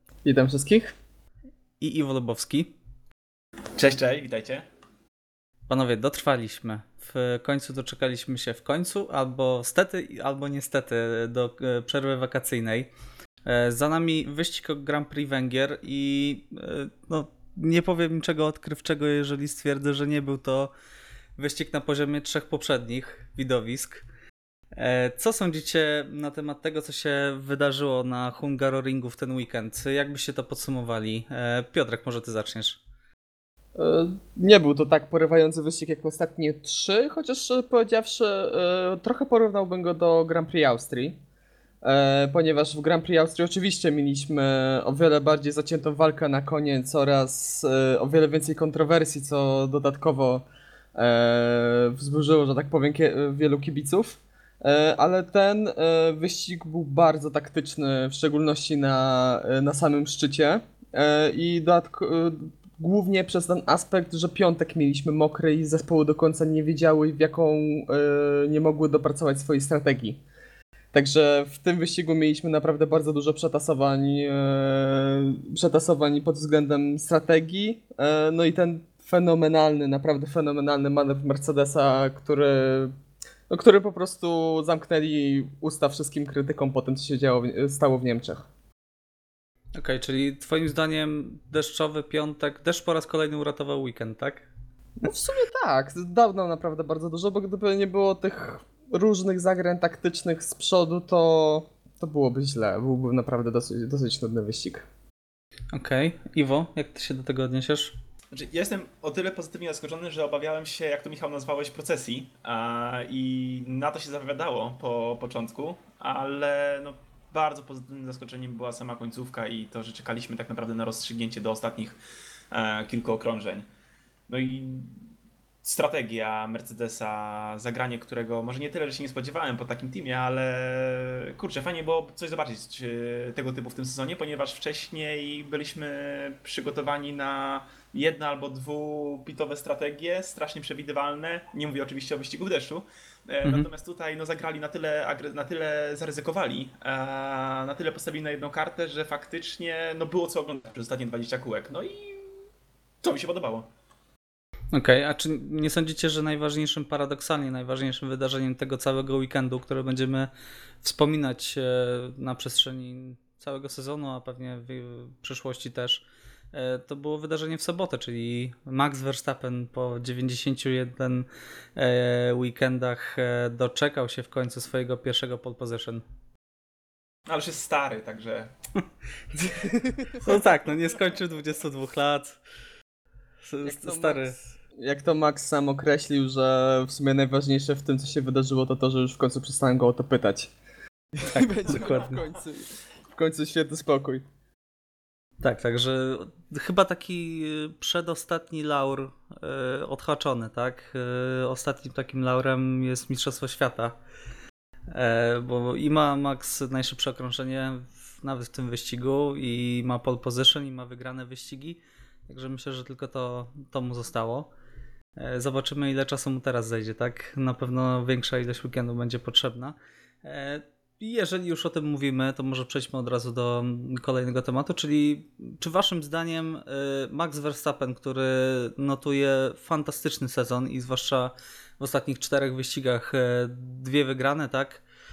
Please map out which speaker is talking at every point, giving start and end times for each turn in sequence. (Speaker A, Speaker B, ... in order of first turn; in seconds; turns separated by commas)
Speaker A: 0.2-1.0, Speaker B: 1.8-2.7, Speaker C: 3.8-4.7, Speaker B: 5.7-12.9, Speaker B: 13.5-20.7, Speaker B: 21.4-24.0, Speaker B: 24.8-32.8, Speaker A: 33.8-41.2, Speaker A: 41.8-70.2, Speaker A: 70.9-82.9, Speaker A: 83.5-88.5, Speaker B: 89.8-94.5, Speaker A: 95.0-104.9, Speaker B: 105.7-108.0, Speaker C: 108.3-122.0, Speaker C: 122.5-123.7, Speaker C: 124.3-125.1, Speaker C: 125.6-152.4, Speaker C: 153.0-153.7, Speaker B: 154.7-160.3, Speaker B: 160.8-176.0, Speaker C: 177.3-178.5, Speaker A: 179.4-180.2, Speaker B: 180.2-182.4, Speaker B: 183.4-184.4, Speaker A: 183.6-190.5, Speaker A: 191.1-194.2, Speaker B: 191.2-192.3, Speaker B: 195.4-203.9, Speaker B: 204.9-214.5, Speaker B: 215.2-234.8